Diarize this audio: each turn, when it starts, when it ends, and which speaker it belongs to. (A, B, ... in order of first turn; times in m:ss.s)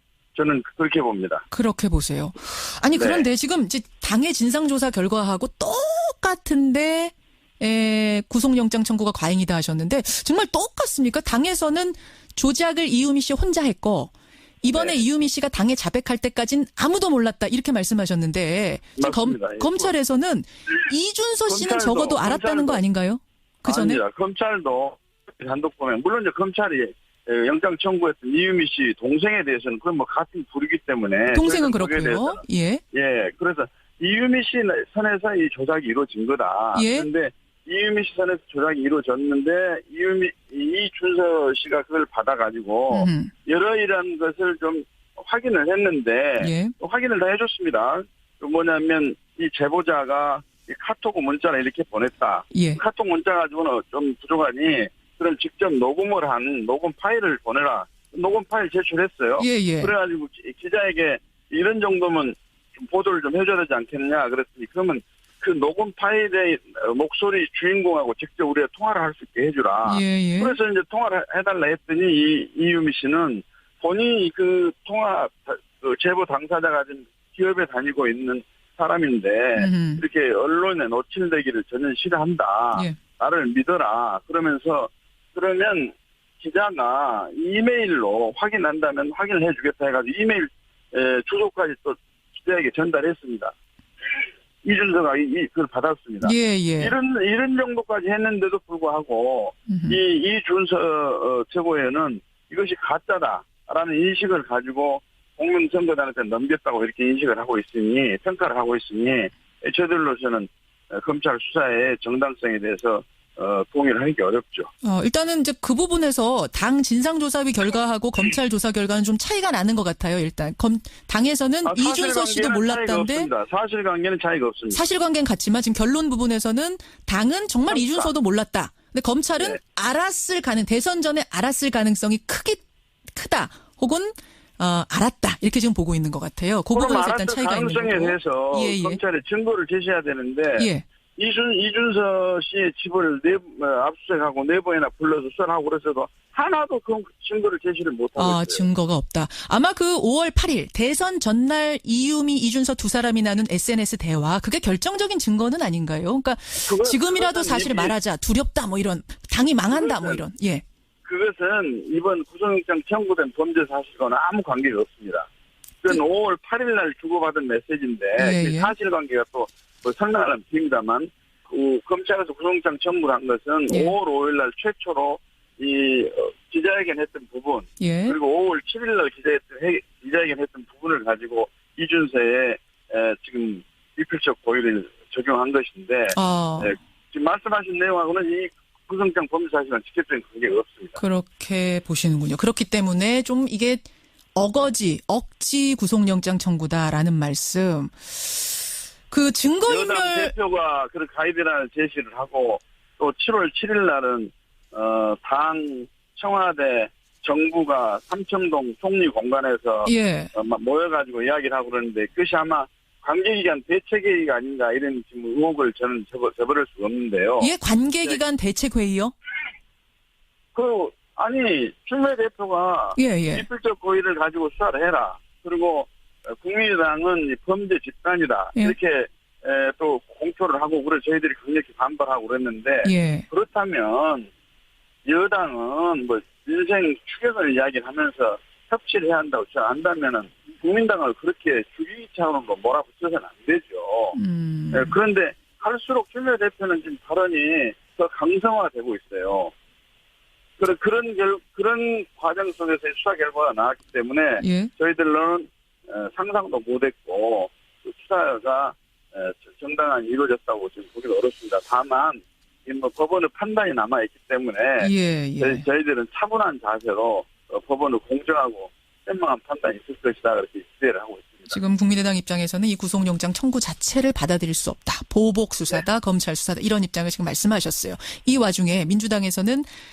0:00.4-0:01.4 A
0:01.5-0:24.0 B
0:03.0-0:03.3 A
0:14.7-0:15.0 A
0:19.0-0:19.9 A
0:21.5-0:22.8 A
0:23.6-1:33.6 A
0:31.3-0:32.8 B
0:36.8-0:37.1 B
0:42.9-0:43.3 B
0:46.4-0:46.7 B
0:52.5-0:52.8 B
0:59.4-0:59.9 B
1:09.9-1:10.6 B
1:19.6-1:20.0 B
1:34.6-1:54.7 A
1:36.2-1:37.0 B
1:39.7-1:40.0 B
1:54.8-2:03.3 B
2:01.6-2:04.8 A
2:04.7-2:19.0 B
2:07.7-2:08.1 A
2:16.7-2:28.7 A
2:20.6-2:20.8 B
2:28.2-2:40.6 B
2:36.6-2:38.0 A
2:39.7-2:40.2 A
2:41.0-2:45.3 A
2:45.8-3:11.0 A
2:48.2-2:48.7 B
2:53.7-2:53.9 B
2:57.8-2:58.2 B
3:06.1-3:06.8 B
3:11.0-3:20.3 B
3:19.6-3:37.5 A
3:29.8-3:30.3 B
3:37.4-3:39.1 B
3:40.6-3:54.3 A
3:43.0-3:43.4 B
3:52.8-3:53.3 B
3:55.1-4:04.2 A
4:04.2-4:05.0 B
4:04.7-4:09.5 A
4:10.6-4:31.6 A
4:14.4-4:14.7 B
4:24.8-4:25.6 B
4:31.5-4:39.7 B